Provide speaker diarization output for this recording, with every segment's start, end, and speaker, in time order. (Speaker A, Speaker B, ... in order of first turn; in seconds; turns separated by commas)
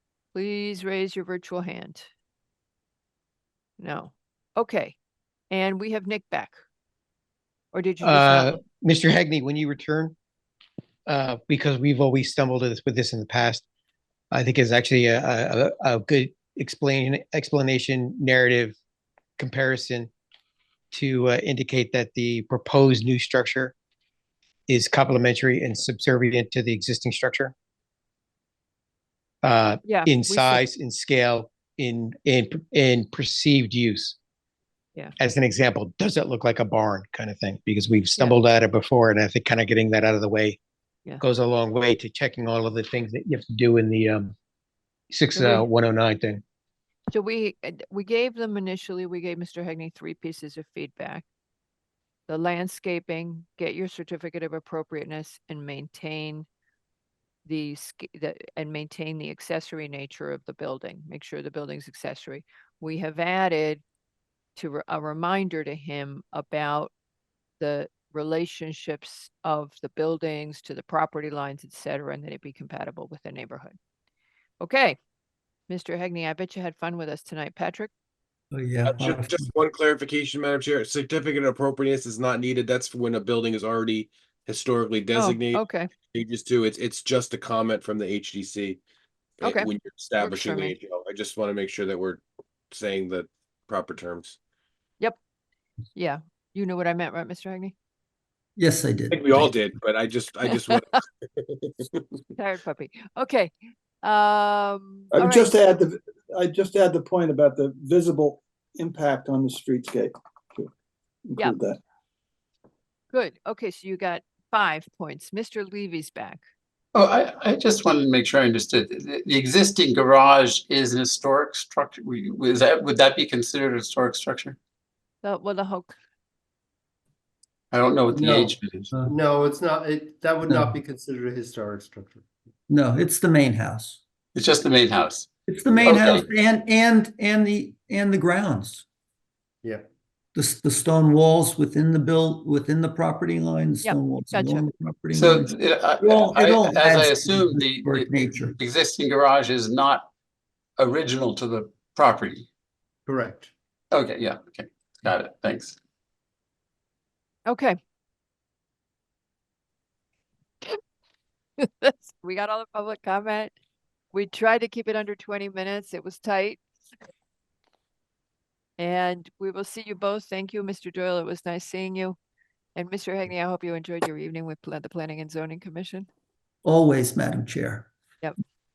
Speaker A: 0.3-2.1, Speaker A: 3.8-5.0, Speaker A: 5.5-6.5, Speaker A: 7.7-8.6, Speaker B: 8.0-10.2, Speaker B: 11.1-13.6, Speaker B: 14.3-18.8, Speaker B: 19.4-20.1, Speaker B: 20.9-23.7, Speaker B: 24.7-27.5, Speaker B: 29.4-34.2, Speaker A: 29.9-30.6, Speaker B: 35.2-40.6, Speaker B: 41.2-44.3, Speaker B: 45.1-46.4, Speaker A: 45.4-45.7, Speaker A: 47.1-51.2, Speaker A: 52.3-56.5, Speaker A: 57.5-63.8, Speaker A: 64.6-66.9, Speaker A: 67.6-73.8, Speaker A: 74.6-75.0, Speaker A: 75.7-77.9, Speaker C: 78.5-79.5, Speaker D: 78.8-88.8, Speaker A: 85.2-85.9, Speaker D: 89.4-94.4, Speaker A: 89.4-89.7, Speaker A: 90.2-90.8, Speaker A: 96.0-97.7, Speaker C: 98.6-99.5, Speaker D: 99.1-102.0, Speaker A: 102.4-105.5, Speaker E: 105.1-110.7, Speaker E: 111.3-111.8, Speaker A: 113.1-116.4, Speaker F: 117.0-124.6, Speaker A: 125.2-125.9, Speaker F: 127.7-128.9, Speaker G: 128.1-132.2, Speaker C: 130.5-130.8, Speaker C: 132.7-134.0, Speaker F: 134.3-135.3, Speaker C: 135.5-138.8, Speaker F: 135.8-136.3, Speaker C: 140.3-148.6, Speaker A: 143.8-144.7, Speaker F: 145.1-150.1, Speaker F: 150.8-152.5, Speaker G: 153.1-153.5, Speaker F: 153.9-155.8, Speaker A: 157.5-157.8, Speaker A: 161.6-163.5, Speaker A: 164.1-166.6, Speaker A: 168.8-172.2, Speaker A: 172.8-176.1, Speaker C: 176.6-177.9